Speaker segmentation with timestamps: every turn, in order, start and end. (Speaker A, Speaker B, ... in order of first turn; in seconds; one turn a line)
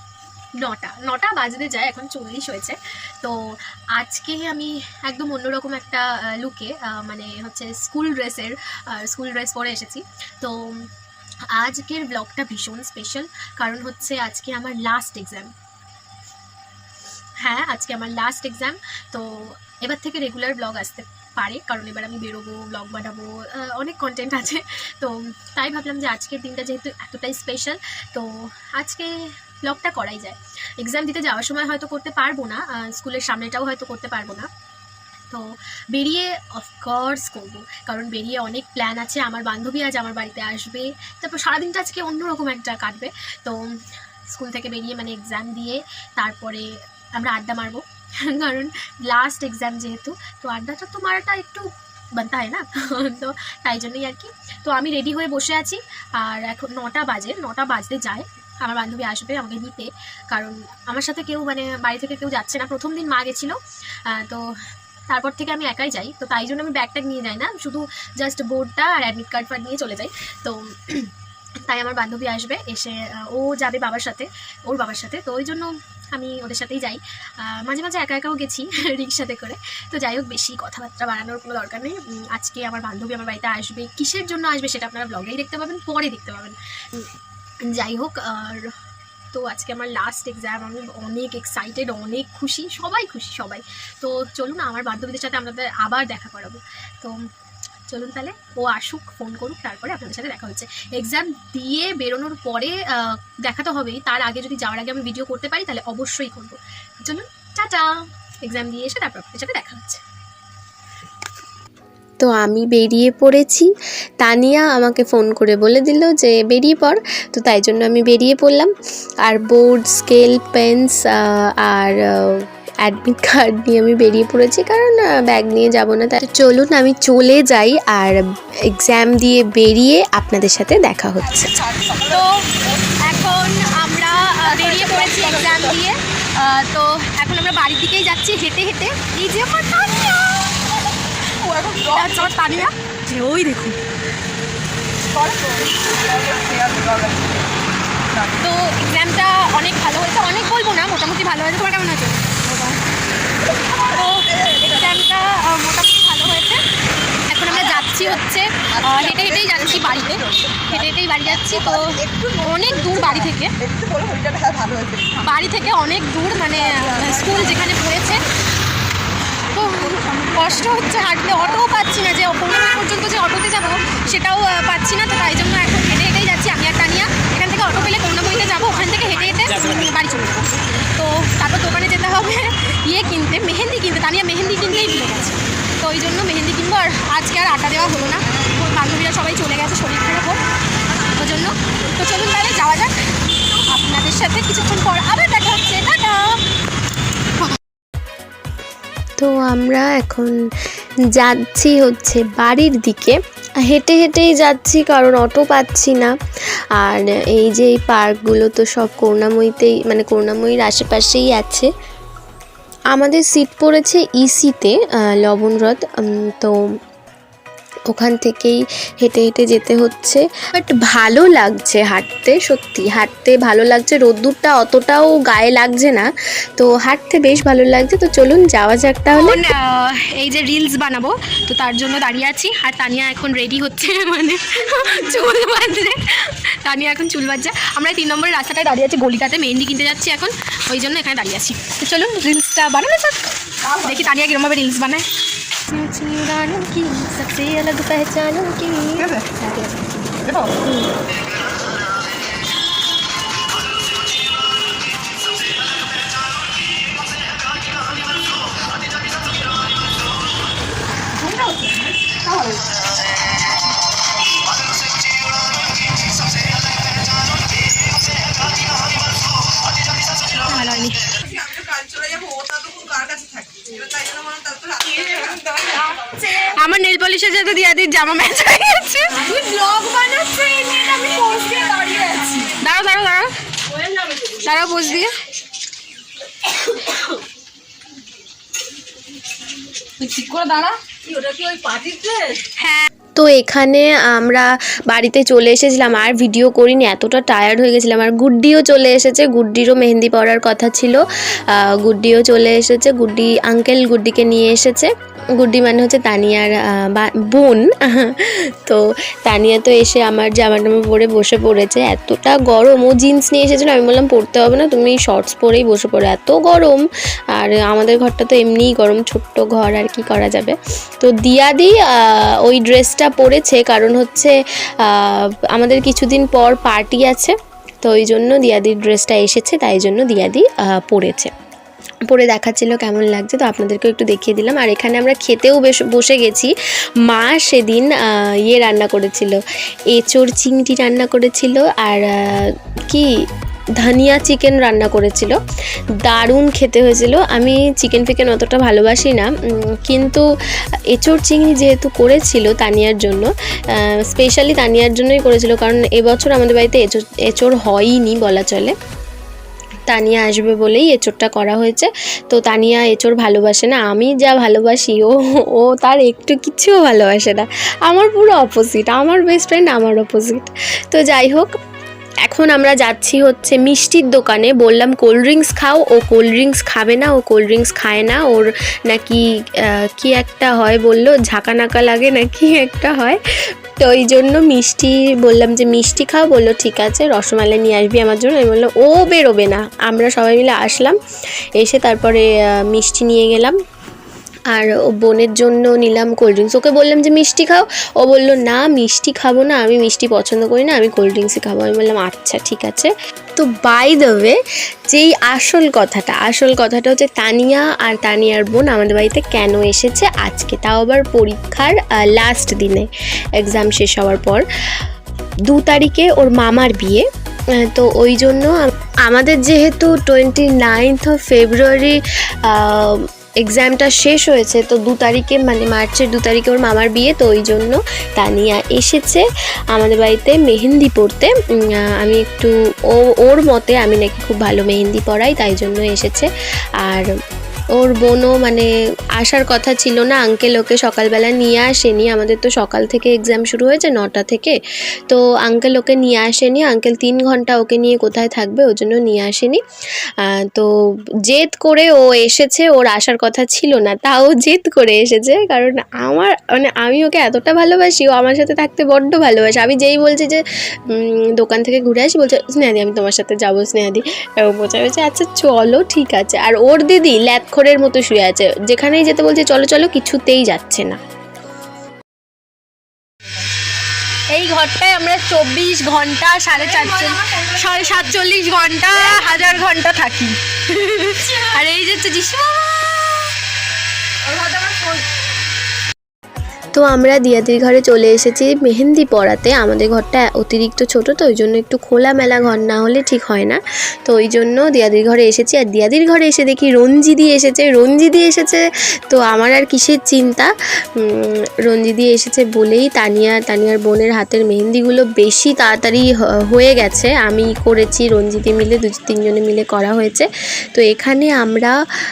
Speaker A: 0.6-3.4
Speaker A: 4.0-10.7
Speaker A: 11.5-15.5
Speaker A: 17.4-34.5
Speaker A: 35.3-43.6
Speaker A: 44.3-64.5
Speaker A: 65.1-71.1
Speaker A: 71.7-87.1
Speaker A: 87.7-88.7
Speaker A: 89.3-97.2
Speaker A: 97.9-107.9
Speaker A: 108.5-110.0
Speaker B: 112.2-113.7
Speaker B: 114.2-118.7
Speaker B: 119.2-131.6
Speaker C: 131.4-132.9
Speaker A: 132.0-140.7
Speaker C: 134.3-135.7
Speaker C: 141.2-142.3
Speaker A: 141.9-143.8
Speaker C: 145.1-147.5
Speaker A: 148.4-152.8
Speaker C: 153.5-154.8
Speaker A: 153.8-156.6
Speaker A: 157.3-163.5
Speaker C: 157.7-158.1
Speaker C: 158.8-160.8
Speaker C: 161.5-165.3
Speaker A: 165.2-168.3
Speaker C: 166.6-167.4
Speaker A: 169.5-190.4
Speaker C: 169.7-170.5
Speaker A: 191.0-196.4
Speaker B: 199.2-200.4
Speaker B: 201.2-206.1
Speaker B: 206.8-211.7
Speaker B: 212.9-216.6
Speaker B: 217.9-229.4
Speaker A: 229.1-245.1
Speaker C: 243.6-244.0
Speaker A: 245.7-250.1
Speaker C: 250.2-250.6
Speaker C: 261.1-262.8
Speaker A: 270.4-271.1
Speaker C: 271.2-276.0
Speaker A: 275.6-280.7
Speaker C: 279.4-282.5
Speaker A: 282.4-283.3
Speaker C: 283.9-284.1
Speaker A: 284.2-285.2
Speaker C: 290.0-292.4
Speaker A: 292.6-292.9
Speaker B: 293.2-331.3
Speaker B: 332.1-336.5
Speaker B: 337.1-339.4
Speaker B: 339.9-343.1
Speaker B: 343.8-345.4
Speaker B: 346.0-350.2
Speaker B: 350.9-358.8
Speaker B: 359.9-371.5
Speaker B: 372.3-383.2
Speaker B: 383.8-391.0
Speaker B: 391.6-393.6
Speaker B: 394.5-404.4
Speaker B: 404.9-414.4
Speaker B: 415.5-417.1
Speaker B: 417.6-436.3
Speaker B: 436.8-437.1
Speaker B: 437.8-444.6
Speaker B: 445.1-449.6
Speaker B: 450.2-450.7
Speaker B: 451.2-471.0
Speaker A: 474.3-483.3
Speaker C: 476.7-477.9
Speaker C: 484.2-485.1
Speaker B: 486.7-511.7